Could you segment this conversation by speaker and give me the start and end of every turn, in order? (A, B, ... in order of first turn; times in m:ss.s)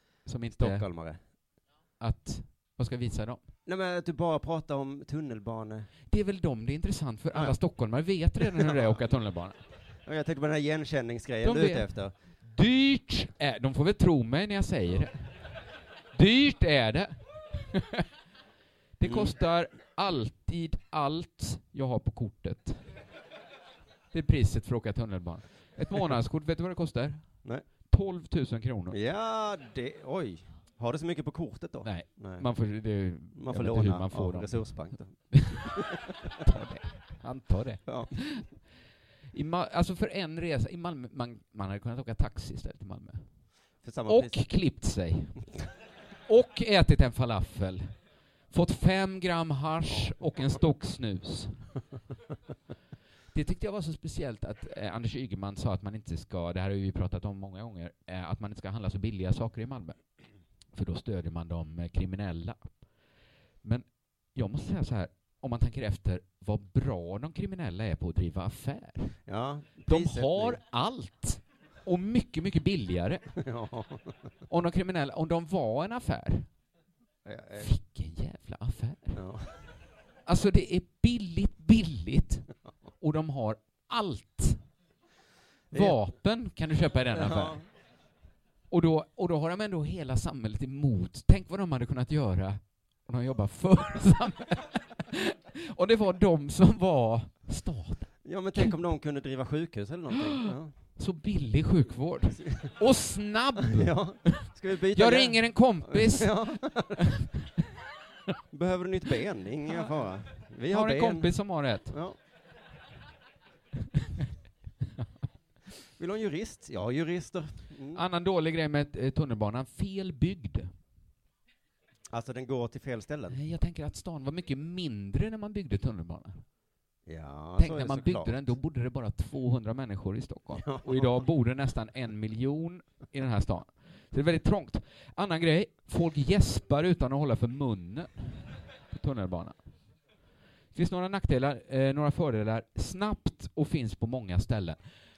0:00.3-0:00.9 A
0:00.5-0:01.2 B
0:02.0-0:03.4 A
0:03.6-0:05.9 B
0:06.1-0:09.6 A
0:07.3-0:07.6 B
0:08.4-0:09.0 B
0:10.0-0:12.1 B
0:11.4-0:15.5 A
0:16.1-0:18.0 A
0:19.0-0:22.8 A
0:19.0-0:19.4 B
0:24.1-0:29.0 A
0:28.9-0:32.5 B
0:31.8-0:35.8 A
0:33.4-0:36.0 B
0:36.4-0:38.5 A
0:37.9-0:38.1 B
0:39.3-0:43.3 A
0:43.8-0:44.4 B
0:44.1-0:45.5 A
0:46.3-0:48.0 A
0:48.5-0:51.7 A
0:49.9-0:50.1 B
0:53.3-1:00.0 A
1:00.7-1:02.7 A
1:03.6-1:09.1 A
1:09.3-1:10.6 B
1:09.9-1:13.2 A
1:13.4-1:14.2 B
1:14.5-1:16.5 A
1:17.2-1:17.7 B
1:17.6-1:19.2 A
1:19.1-1:19.6 B
1:20.3-1:22.5 A
1:23.0-1:24.6 A
1:25.7-1:26.0 B
1:25.7-1:27.6 A
1:27.1-1:27.6 B
1:28.7-1:38.7 A
1:38.2-1:40.7 B
1:41.0-1:46.4 A
1:42.4-1:42.7 B
1:43.6-1:47.1 B
1:48.5-1:51.4 B
1:50.7-1:52.0 A
1:51.9-1:52.2 B
1:56.0-1:58.0 B
1:58.0-2:00.7 A
2:02.1-2:03.4 B
2:03.3-2:06.4 A
2:07.1-2:08.4 B
2:07.6-2:19.7 A
2:10.6-2:11.2 B
2:20.7-2:24.8 A